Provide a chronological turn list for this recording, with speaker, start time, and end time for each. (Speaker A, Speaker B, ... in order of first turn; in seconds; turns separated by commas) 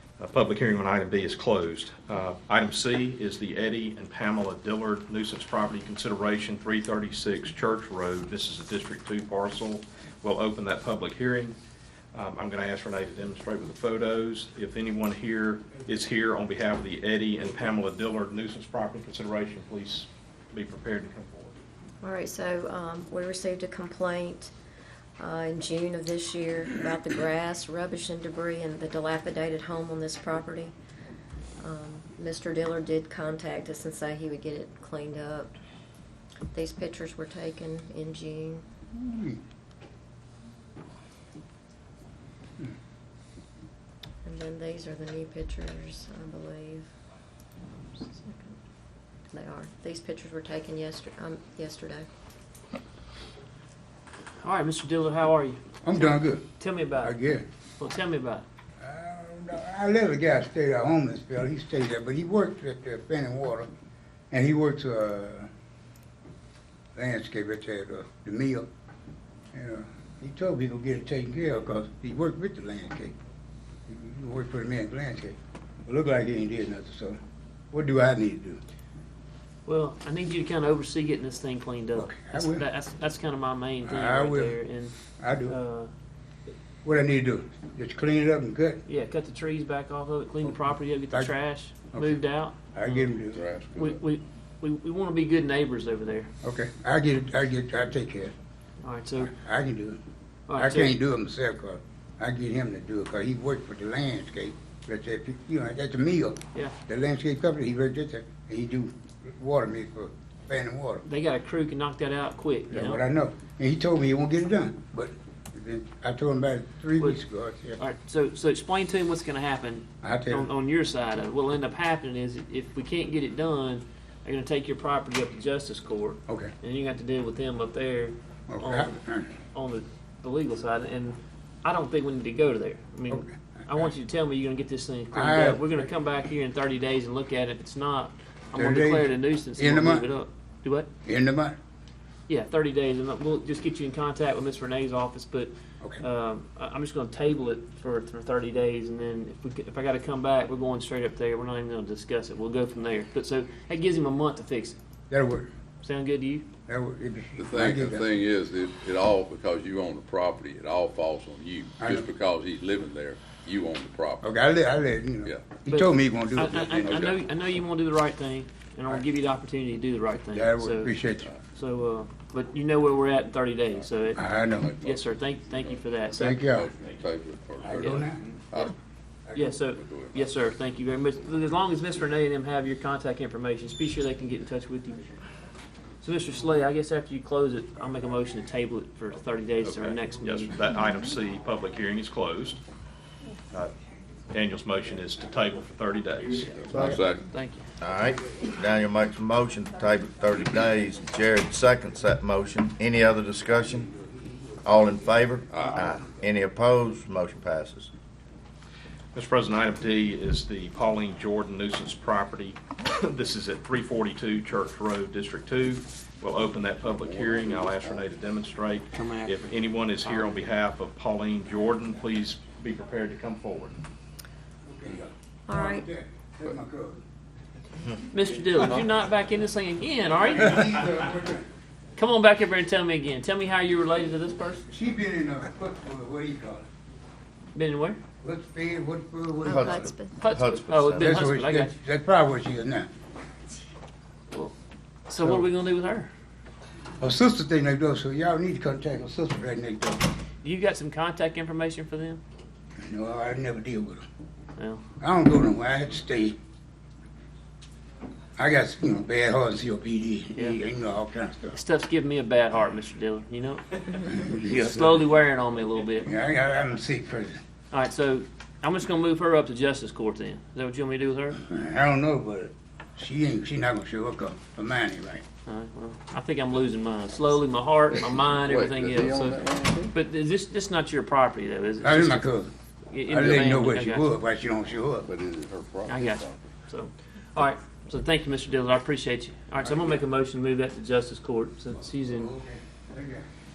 Speaker A: 0.2-11.6, Speaker A: 12.1-21.5, Speaker B: 22.0-24.5, Speaker B: 25.2-30.7, Speaker B: 31.6-35.5, Speaker B: 36.5-38.6, Speaker C: 38.9-39.4, Speaker B: 44.2-46.9, Speaker B: 48.0-48.5, Speaker B: 49.3-52.0, Speaker D: 54.4-57.2, Speaker C: 55.8-56.5, Speaker C: 57.0-57.4, Speaker D: 57.8-58.4, Speaker C: 58.8-63.7, Speaker C: 64.3-65.5, Speaker C: 66.9-68.7, Speaker C: 69.5-73.1, Speaker C: 73.9-77.2, Speaker C: 77.7-78.6, Speaker D: 79.7-85.9, Speaker C: 81.9-82.7, Speaker C: 83.8-84.6, Speaker C: 85.2-85.5, Speaker C: 86.8-88.8, Speaker D: 88.8-93.1, Speaker C: 91.9-92.2, Speaker C: 92.7-93.4, Speaker E: 93.3-94.0, Speaker D: 93.7-96.3, Speaker C: 96.4-98.3, Speaker D: 98.8-99.3, Speaker C: 99.2-100.0, Speaker D: 100.5-101.0, Speaker C: 100.5-111.0, Speaker D: 111.0-113.0, Speaker C: 112.7-117.8, Speaker D: 117.8-128.9, Speaker C: 120.0-120.5, Speaker C: 128.5-129.3, Speaker D: 129.5-140.9, Speaker C: 133.1-133.8, Speaker C: 135.1-135.7, Speaker C: 138.5-140.1, Speaker C: 141.0-141.6, Speaker D: 142.3-154.8, Speaker C: 155.1-155.5, Speaker D: 155.8-156.4, Speaker C: 156.7-158.1, Speaker E: 157.4-164.3, Speaker C: 161.8-162.1, Speaker C: 164.2-167.1, Speaker D: 165.7-170.9, Speaker E: 166.6-167.2, Speaker C: 170.3-171.3, Speaker D: 171.5-174.2, Speaker C: 174.1-174.7, Speaker E: 174.5-178.7, Speaker D: 174.7-176.4, Speaker C: 176.1-176.7, Speaker C: 177.6-178.2, Speaker D: 177.8-178.1, Speaker D: 179.3-185.1, Speaker E: 179.7-180.4, Speaker D: 186.0-190.6, Speaker A: 189.6-192.6, Speaker A: 194.3-196.6, Speaker E: 196.6-197.3, Speaker D: 196.8-197.7, Speaker F: 197.8-203.9, Speaker C: 203.9-204.5, Speaker F: 204.6-207.9, Speaker E: 205.5-205.9, Speaker C: 205.7-206.1, Speaker A: 209.1-223.8, Speaker E: 216.8-218.1, Speaker D: 218.9-219.4, Speaker D: 220.0-220.3, Speaker C: 224.7-227.0, Speaker B: 225.5-225.9, Speaker D: 228.1-230.7, Speaker C: 230.2-231.5, Speaker D: 232.0-234.6, Speaker C: 234.7-236.7, Speaker D: 237.5-238.0, Speaker C: 238.2-239.9, Speaker B: 239.4-240.2, Speaker F: 239.5-241.2, Speaker D: 240.2-241.8, Speaker C: 240.9-242.9, Speaker D: 245.1-246.1, Speaker C: 247.0-250.1, Speaker D: 250.4-252.2, Speaker C: 252.8-254.0, Speaker D: 254.6-254.8, Speaker C: 255.0-256.4, Speaker C: 258.4-261.6, Speaker D: 261.5-266.1, Speaker C: 264.1-264.9, Speaker C: 266.0-267.4, Speaker D: 267.7-271.4, Speaker C: 271.4-275.2, Speaker D: 275.4-282.3, Speaker E: 277.9-279.9, Speaker C: 281.8-282.5, Speaker D: 282.9-284.1, Speaker C: 283.1-285.1, Speaker E: 285.0-286.4, Speaker D: 285.9-292.3, Speaker C: 289.6-290.0, Speaker C: 291.8-293.2